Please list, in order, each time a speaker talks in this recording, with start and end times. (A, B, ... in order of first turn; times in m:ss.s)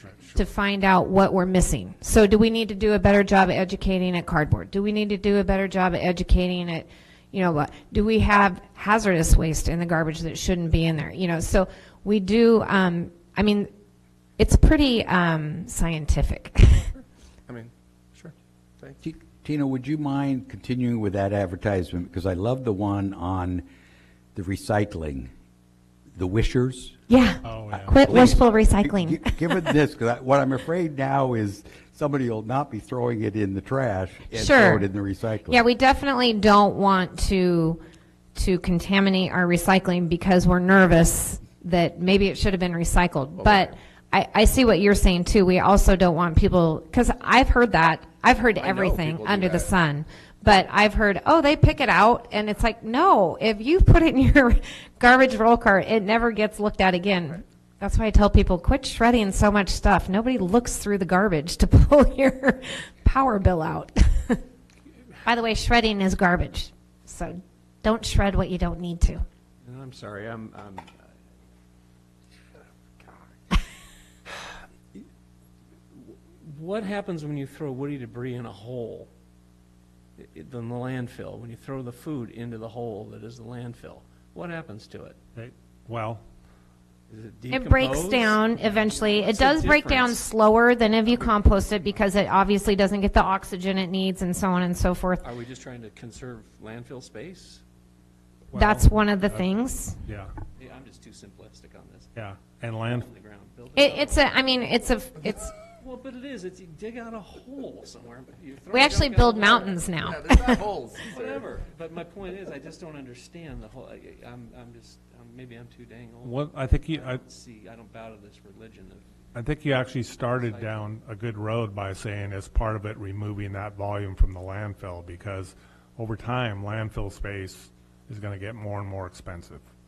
0:00.3-0:13.7 A
0:14.4-0:16.9 A
0:17.5-0:19.0 B
0:19.0-0:23.6 C
0:24.3-0:25.3 C
0:26.1-0:27.0 C
0:27.1-0:29.7 A
0:27.4-0:28.0 D
0:28.0-0:35.6 C
0:34.3-0:34.9 A
0:35.5-0:37.8 A
0:38.3-1:04.4 A
0:43.4-0:43.7 B
0:48.6-0:49.7 B
1:05.2-1:09.2 A
1:09.6-1:11.1 E
1:13.0-1:13.5 E
1:14.3-1:15.0 E
1:15.9-1:19.1 E
1:20.2-1:25.2 E
1:25.4-1:26.2 D
1:27.1-1:30.3 E
1:27.5-1:35.3 A
1:31.1-1:31.4 E
1:35.2-1:37.6 E
1:38.5-1:39.5 D
1:38.5-1:40.0 A
1:40.0-1:40.3 D
1:40.6-1:42.1 E
1:42.2-1:43.1 D
1:42.8-1:44.7 E
1:43.7-1:45.5 A
1:45.8-1:49.9 E
1:48.7-1:50.6 A
1:50.0-1:51.4 B
1:50.9-1:59.0 E
1:56.2-1:57.2 D
1:59.3-2:09.7 D
2:00.2-2:00.9 E